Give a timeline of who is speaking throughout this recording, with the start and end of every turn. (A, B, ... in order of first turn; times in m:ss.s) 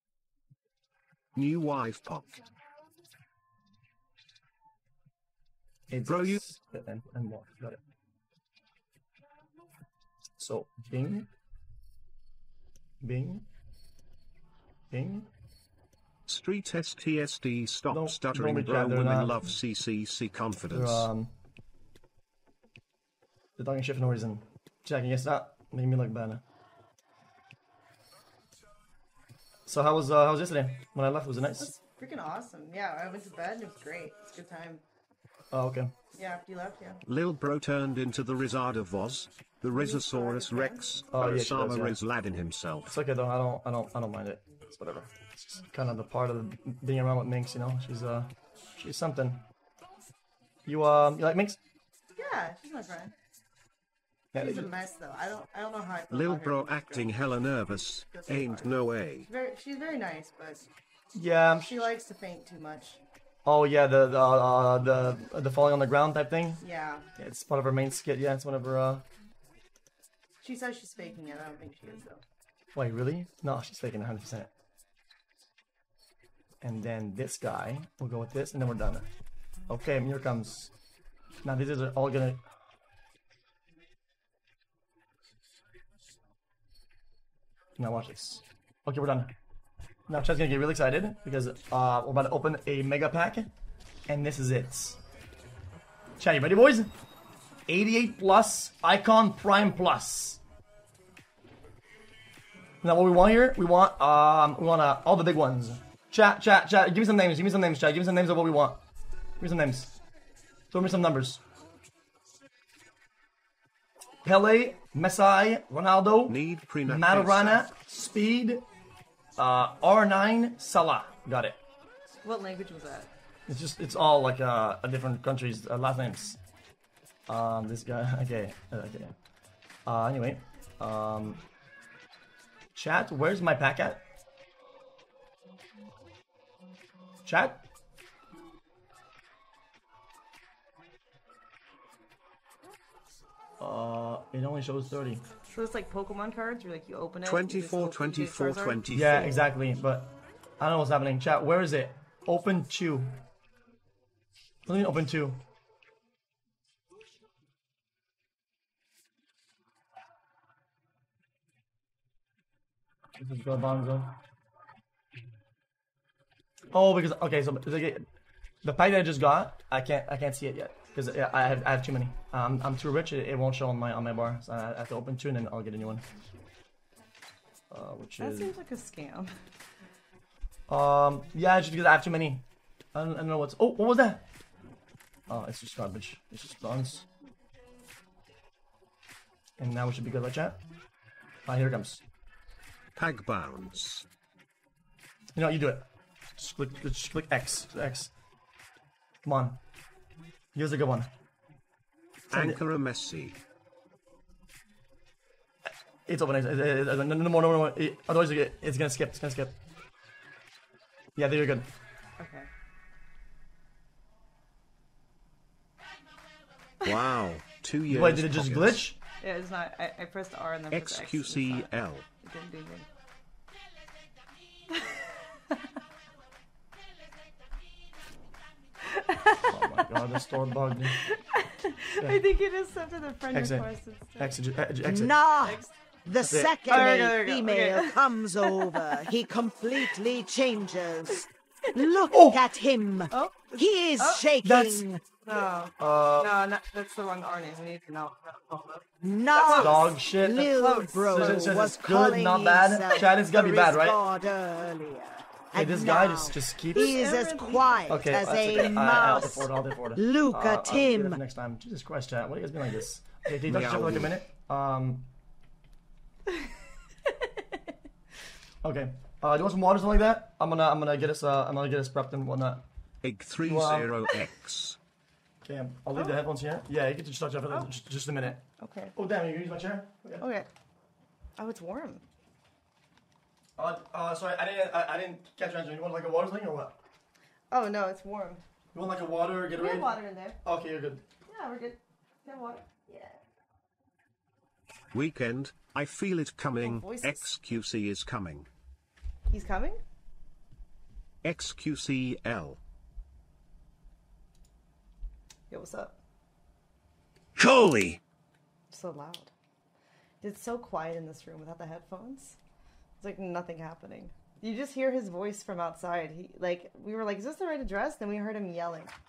0:01.3-0:02.4 A
0:05.9-0:07.8 B
0:06.1-0:06.4 A
0:10.4-0:11.3 B
0:13.0-0:13.4 B
0:14.9-0:15.3 B
0:16.3-0:21.1 A
0:17.9-0:19.4 B
0:20.7-0:21.3 B
0:23.6-0:26.4 B
0:29.6-0:31.7 B
0:31.6-0:34.8 C
0:35.5-0:35.9 B
0:36.1-0:37.0 C
0:37.0-0:42.9 A
0:39.7-0:40.9 C
0:41.1-0:42.0 B
0:42.9-0:49.4 B
0:50.6-0:51.6 B
0:52.1-0:53.1 C
0:54.3-0:54.7 B
0:54.3-0:57.2 C
0:56.1-0:59.3 A
0:58.0-0:58.7 C
0:59.2-1:00.7 C
1:01.1-1:01.7 B
1:01.6-1:03.0 C
1:03.4-1:06.6 B
1:06.6-1:07.1 C
1:07.2-1:09.0 B
1:10.4-1:12.2 C
1:12.7-1:14.5 B
1:16.6-1:19.0 B
1:19.7-1:20.7 B
1:21.4-1:22.4 B
1:27.8-1:29.3 B
1:30.1-1:33.5 B
1:34.1-1:35.0 B
1:36.2-1:36.9 B
1:37.7-1:40.4 B
1:42.8-1:48.8 B
1:49.4-1:49.9 B
1:50.7-1:51.4 B
1:54.2-1:58.6 B
1:56.3-1:57.7 A
1:59.4-2:01.6 B
2:02.2-2:03.1 C
2:03.5-2:06.4 B
2:07.3-2:09.1 B
2:09.8-2:11.4 B
2:12.7-2:14.0 B
2:17.2-2:17.6 B
2:23.6-2:25.2 B
2:25.5-2:28.8 C
2:27.2-2:29.4 A
2:28.9-2:33.2 B
2:34.6-2:35.4 B
2:43.2-2:44.2 B
2:46.7-2:48.0 B
2:48.6-2:56.0 B
2:57.7-2:58.6 B
2:58.2-2:59.3 C
3:00.7-3:04.2 B
3:05.3-3:07.0 B
3:09.6-3:10.6 B
3:11.4-3:12.0 B
3:13.0-3:14.0 A
3:15.3-3:18.1 B
3:19.2-3:19.6 B
3:20.5-3:21.1 B
3:22.3-3:23.4 A
3:22.3-3:22.6 B
3:26.0-3:29.6 B
3:31.2-3:31.7 B
3:32.2-3:32.5 C
3:36.8-3:38.8 A
3:37.9-3:39.0 B
3:39.2-3:41.7 C
3:40.7-3:42.0 A
3:42.2-3:42.9 C
3:44.7-3:45.6 C
3:48.8-3:49.8 C
3:49.5-3:51.0 B
3:51.0-3:54.4 C
3:53.3-3:55.2 B
3:54.8-4:05.0 D
3:55.4-3:55.8 C
3:56.2-3:56.6 B
3:56.6-3:59.1 C
3:59.7-4:00.0 C
4:02.1-4:02.4 B
4:03.1-4:04.2 C
4:04.4-4:04.9 B
4:05.2-4:11.6 C
4:05.8-4:06.3 B
4:09.0-4:21.2 D
4:09.6-4:10.5 B
4:11.0-4:14.0 B
4:15.5-4:17.0 B
4:16.7-4:18.8 C
4:17.9-4:25.1 B
4:23.4-4:24.1 A
4:26.3-4:26.5 C
4:27.0-4:27.3 C
4:28.6-4:32.6 B
4:33.0-4:34.8 A
4:33.4-4:34.0 B
4:35.4-4:38.4 B
4:37.5-4:37.7 C
4:38.6-4:38.9 C
4:38.9-4:40.2 B
4:40.2-4:40.5 C
4:41.4-4:42.0 C
4:43.6-4:46.8 B
4:47.5-4:48.4 C
4:48.7-4:51.0 B
4:49.5-4:50.4 C
4:51.2-4:53.2 C
4:54.9-4:58.5 A
4:56.6-4:57.3 C
4:59.3-4:59.8 C
5:01.2-5:02.6 A
5:05.5-5:06.0 C
5:07.4-5:08.0 A
5:08.7-5:09.3 C
5:10.2-5:12.4 C
5:13.0-5:18.9 C